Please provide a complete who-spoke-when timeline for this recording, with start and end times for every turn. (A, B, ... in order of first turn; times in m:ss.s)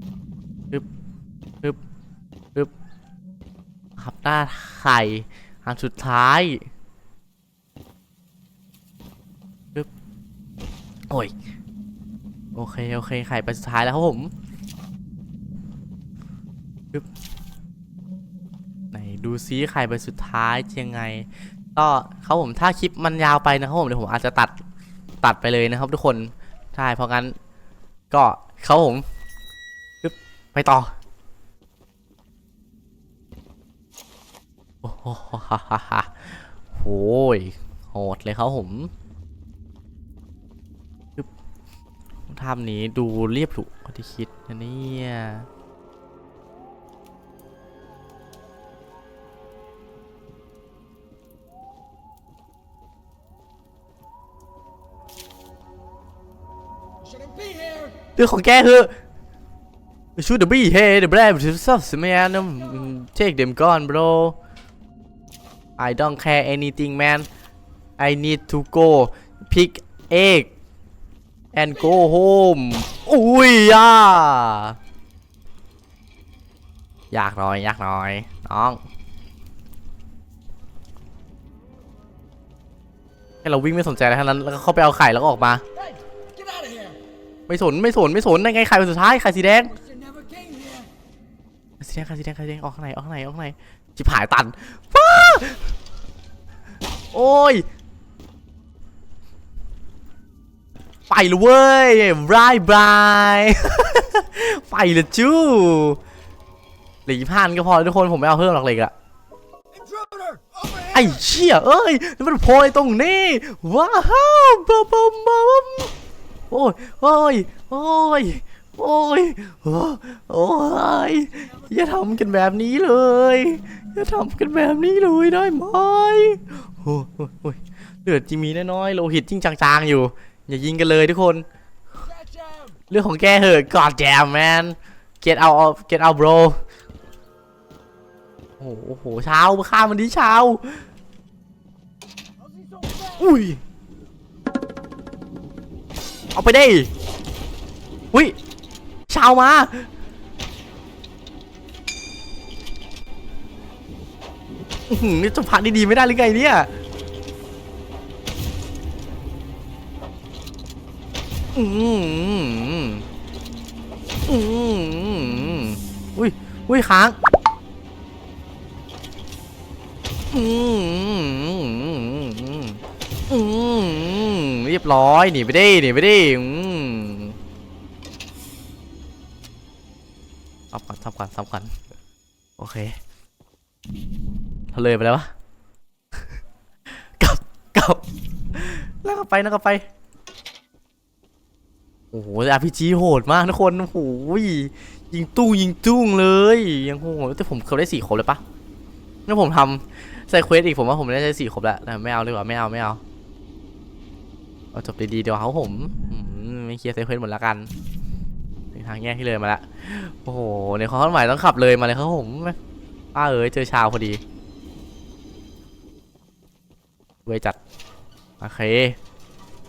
0:04.0-0:06.7 A
0:12.6-0:14.3 A
0:18.9-0:24.6 A
0:25.2-0:27.4 A
0:28.1-0:29.0 A
0:30.0-0:30.9 A
0:34.8-0:38.9 A
0:42.3-0:45.5 A
0:57.0-0:58.0 B
0:58.2-0:59.0 A
1:00.2-1:04.4 A
1:02.6-1:02.9 B
1:05.8-1:07.3 A
1:08.0-1:10.5 A
1:11.5-1:14.8 A
1:11.8-1:12.1 B
1:17.1-1:18.8 A
1:23.4-1:25.6 A
1:25.8-1:27.0 B
1:27.5-1:29.7 A
1:29.6-1:30.9 B
1:31.8-1:35.7 A
1:37.1-1:37.6 A
1:41.1-1:46.0 A
1:47.1-1:48.9 A
1:49.7-1:51.2 B
1:50.9-1:55.9 A
1:56.5-2:11.4 A
2:01.4-2:02.4 B
2:12.0-2:12.8 B
2:12.9-2:16.6 A
2:18.6-2:20.8 A
2:22.4-2:23.3 B
2:23.2-2:23.6 A
2:26.3-2:26.9 A
2:29.1-2:29.9 A
2:34.9-2:36.7 A
2:41.6-2:43.0 A
2:44.2-2:47.2 A
2:50.3-2:57.4 A
3:00.7-3:01.7 A
3:02.6-3:03.0 A
3:04.7-3:05.3 A
3:07.1-3:08.0 A
3:08.5-3:09.9 A
3:12.1-3:18.4 A
3:19.2-3:23.0 A
3:24.7-3:27.7 A
3:28.7-3:32.6 A
3:33.1-3:34.2 A
3:37.2-3:37.6 A
3:38.4-3:39.0 A